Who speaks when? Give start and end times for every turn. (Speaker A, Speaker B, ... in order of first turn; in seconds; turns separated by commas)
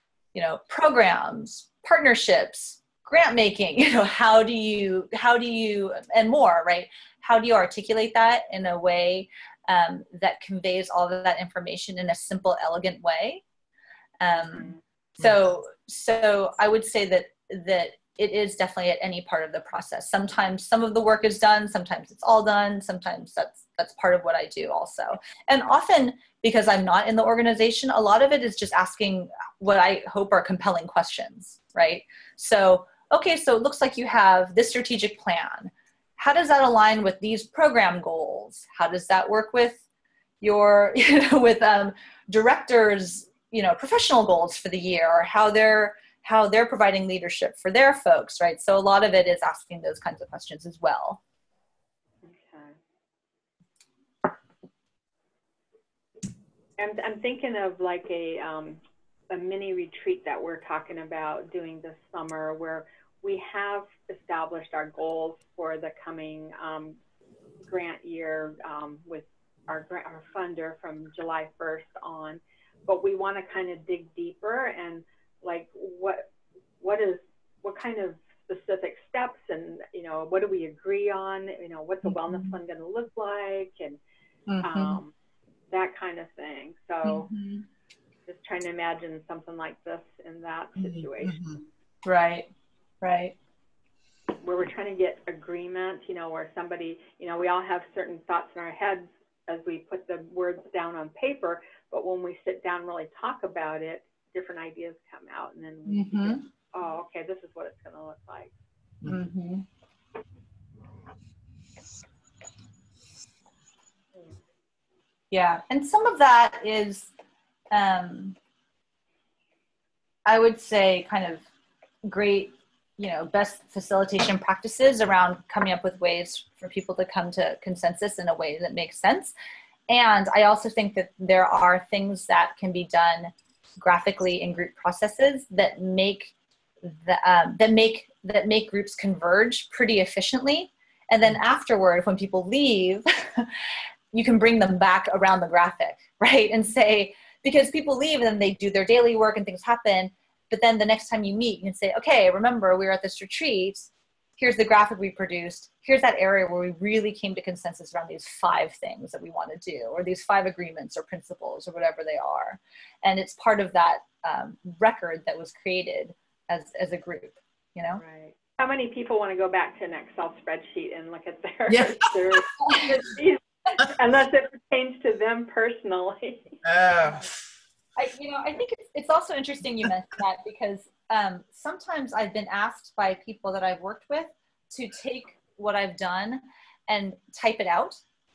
Speaker A: 0.3-13.4, Speaker A: 14.2-39.8, Speaker B: 14.4-14.8, Speaker A: 40.4-51.2, Speaker B: 52.2-52.7, Speaker B: 56.8-67.0, Speaker B: 67.6-76.3, Speaker B: 76.8-84.0, Speaker A: 82.0-82.5, Speaker A: 84.5-85.0, Speaker B: 84.6-85.1, Speaker B: 85.7-87.3, Speaker A: 87.0-87.6, Speaker B: 88.3-91.4, Speaker C: 90.8-91.6, Speaker A: 92.0-92.5, Speaker A: 93.0-93.3, Speaker B: 94.4-108.5, Speaker A: 105.9-106.4, Speaker A: 109.0-109.6, Speaker A: 115.3-117.1, Speaker A: 117.7-118.3, Speaker A: 120.2-121.4, Speaker A: 122.0-129.3, Speaker A: 129.9-143.5, Speaker A: 144.1-168.0, Speaker B: 168.0-176.6, Speaker C: 171.7-172.4, Speaker C: 176.6-177.3, Speaker A: 177.9-188.0